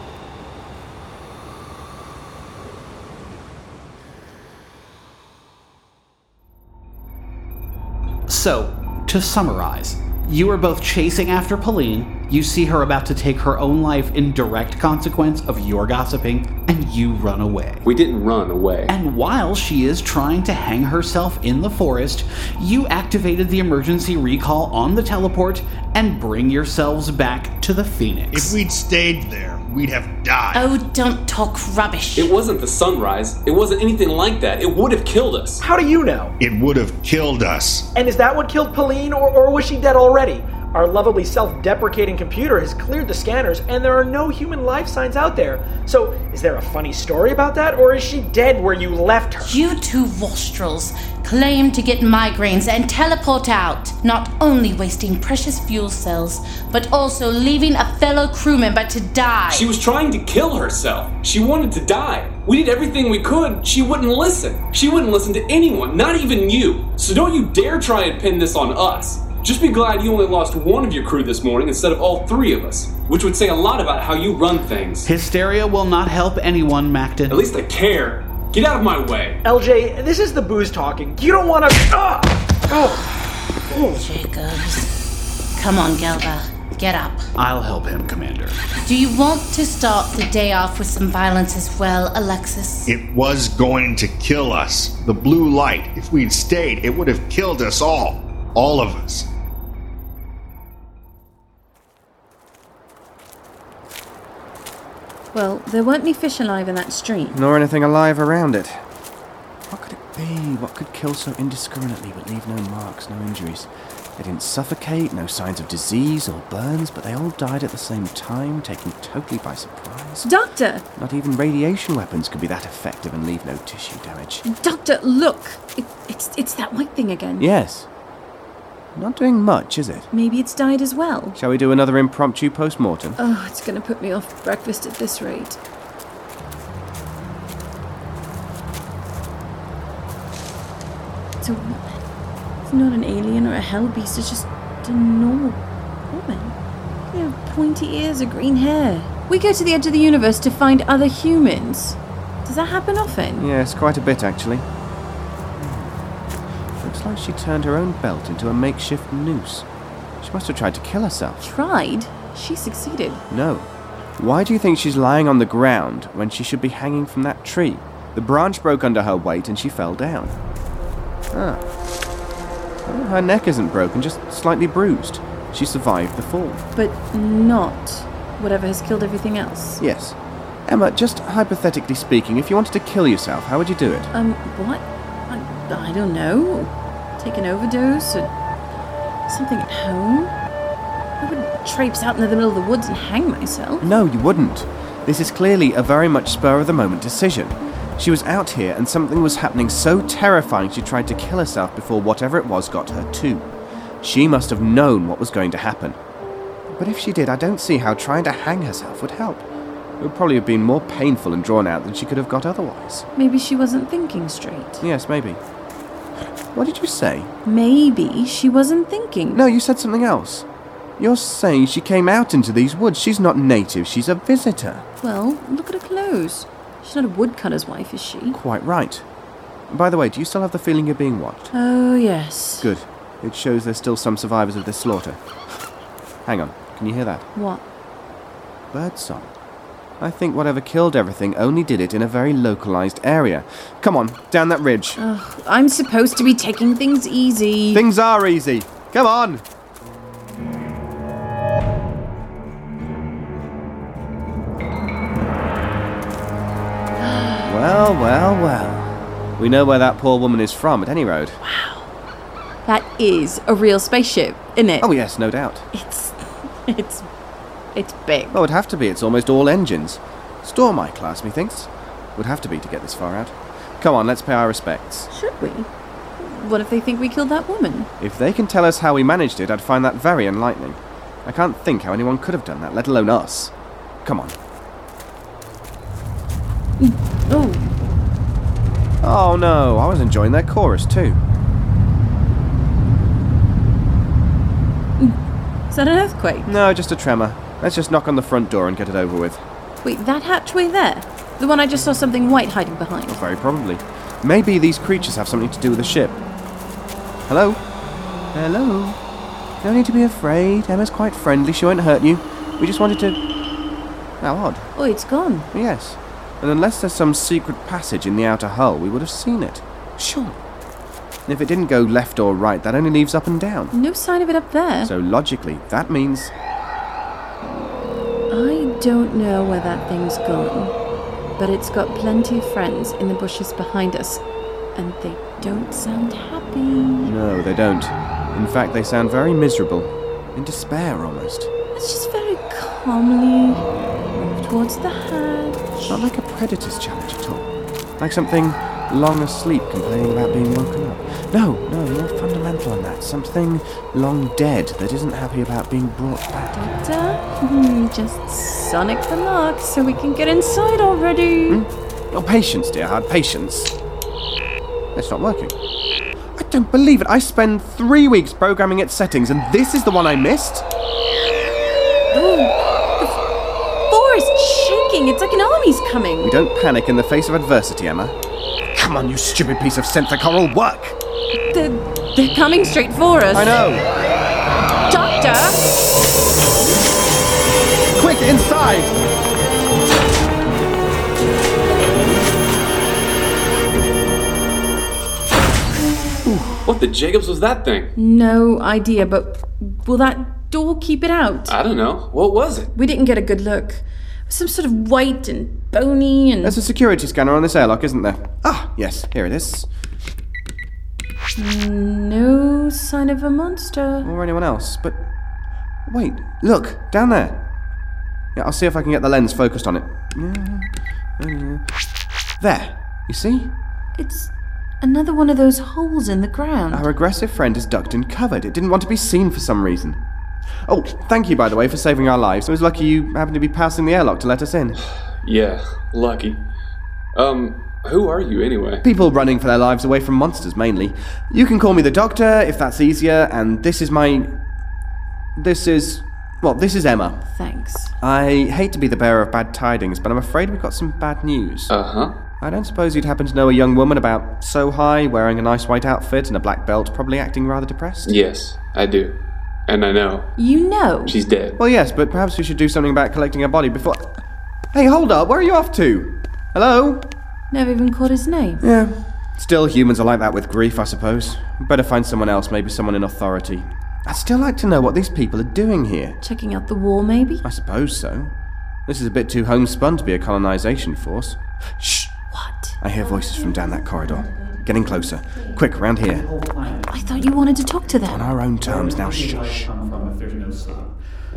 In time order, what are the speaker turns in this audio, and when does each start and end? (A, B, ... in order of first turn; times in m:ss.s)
0:08.3-0:17.9 A
0:17.8-0:18.9 B
0:18.9-0:28.6 A
0:28.3-0:30.7 C
0:30.5-0:32.3 D
0:32.2-0:35.6 B
0:35.6-0:36.4 E
0:36.4-0:37.9 C
0:37.9-0:49.6 E
0:49.4-0:59.7 D
0:59.5-1:15.1 B
1:15.0-1:17.4 A
1:17.3-1:19.4 B
1:19.4-1:23.0 E
1:23.7-1:24.0 E
1:23.9-1:24.9 D
1:25.6-1:27.3 D
1:27.4-1:28.6 A
1:28.8-1:32.9 D
1:32.9-1:39.3 C
1:45.3-1:47.4 F
1:47.3-1:48.8 G
1:49.7-2:00.3 G
2:00.2-2:00.8 F
2:01.0-2:04.4 G
2:04.4-2:07.5 F
2:07.4-2:07.9 G
2:09.0-2:10.1 G
2:10.1-2:11.4 F
2:11.4-2:13.2 G
2:13.2-2:15.6 F
2:21.4-2:22.0 F
2:22.7-2:26.6 F
2:27.1-2:33.5 F
2:33.4-2:34.7 G
2:35.6-2:36.0 G
2:36.8-2:39.7 G
2:40.2-2:41.4 G
2:41.4-2:43.2 F
2:43.3-2:50.4 G
2:51.3-2:51.6 G
2:52.8-2:56.6 G
2:56.8-2:59.8 F
2:59.8-3:00.2 G
3:00.7-3:04.1 G
3:04.1-3:08.3 F
3:09.3-3:10.3 F
3:11.2-3:13.9 F
3:13.8-3:23.5 G
3:24.0-3:26.0 G
3:26.7-3:29.5 G
3:30.0-3:33.1 G
3:33.2-3:34.8 F
3:34.8-3:35.4 G
3:36.5-3:37.3 G
3:37.4-3:39.4 F
3:39.3-3:40.5 G
3:41.0-3:44.8 G
3:45.0-3:48.4 F
3:48.3-3:49.0 G
3:49.7-3:51.5 G
3:51.5-3:52.7 F
3:52.6-3:55.2 G
3:56.2-3:57.3 G
3:57.4-3:57.6 F
3:58.7-3:59.3 G
4:00.0-4:05.0 G
4:05.0-4:07.8 F
4:07.7-4:09.4 G
4:17.0-4:17.6 F
4:17.4-4:21.4 G
4:21.4-4:21.9 F
4:22.7-4:24.9 F
4:24.8-4:25.7 G
4:25.7-4:27.1 F
4:27.8-4:28.4 F
4:28.3-4:35.1 G
4:35.1-4:37.9 F
4:38.0-4:44.4 G
4:46.8-4:47.7 F
4:49.0-4:51.2 G
4:55.0-4:56.5 F
4:56.5-4:59.4 G
4:59.8-5:03.2 F
5:03.1-5:06.2 G
5:07.3-5:07.6 G
5:08.3-5:09.0 G
5:09.6-5:13.2 G
5:14.2-5:14.7 G
5:14.8-5:15.5 F
5:15.5-5:20.4 G
5:21.3-5:23.8 G
5:23.7-5:24.9 F
5:24.8-5:26.3 G
5:28.3-5:30.8 F
5:31.4-5:34.2 F
5:34.8-5:37.1 F
5:37.0-5:41.5 G
5:41.8-5:46.0 F
5:45.9-5:56.6 G
5:56.5-6:01.6 F
6:01.5-6:03.7 G
6:04.9-6:05.6 G
6:06.4-6:10.7 G
6:12.1-6:13.3 F
6:13.9-6:16.3 F
6:16.2-6:18.2 G
6:18.7-6:21.0 G
6:21.5-6:23.6 F
6:23.3-6:23.9 G
6:24.9-6:25.6 F
6:28.0-6:29.0 G
6:36.2-6:36.6 G
6:36.6-6:37.9 B
6:38.0-6:41.6 F
6:41.5-6:42.7 B
6:42.8-6:46.6 F
6:46.4-6:49.7 G
6:51.4-6:54.1 F
6:54.0-6:55.0 G
6:55.9-6:57.4 G
6:58.4-7:01.6 G
7:02.4-7:03.5 G
7:04.0-7:06.9 F
7:06.7-7:10.0 G
7:10.7-7:14.8 G
7:15.2-7:16.4 B
7:17.1-7:18.8 B
7:18.8-7:24.4 G
7:25.4-7:27.2 G
7:27.3-7:27.9 F
7:28.0-7:31.7 G
7:31.7-7:32.1 B
7:32.4-7:38.1 G
7:38.0-7:39.1 B
7:39.7-7:40.3 B
7:40.4-7:41.2 F
7:41.1-7:41.6 B
7:41.6-7:44.2 G
7:44.7-7:47.1 G
7:47.5-7:48.6 F
7:48.6-7:56.2 G
7:56.2-7:57.4 F
7:57.4-7:58.3 G
7:58.9-8:02.2 G
8:02.3-8:02.8 F
8:02.8-8:06.2 G
8:03.0-8:05.7 D
8:06.0-8:11.0 A
8:06.9-8:08.2 F
8:08.1-8:09.7 G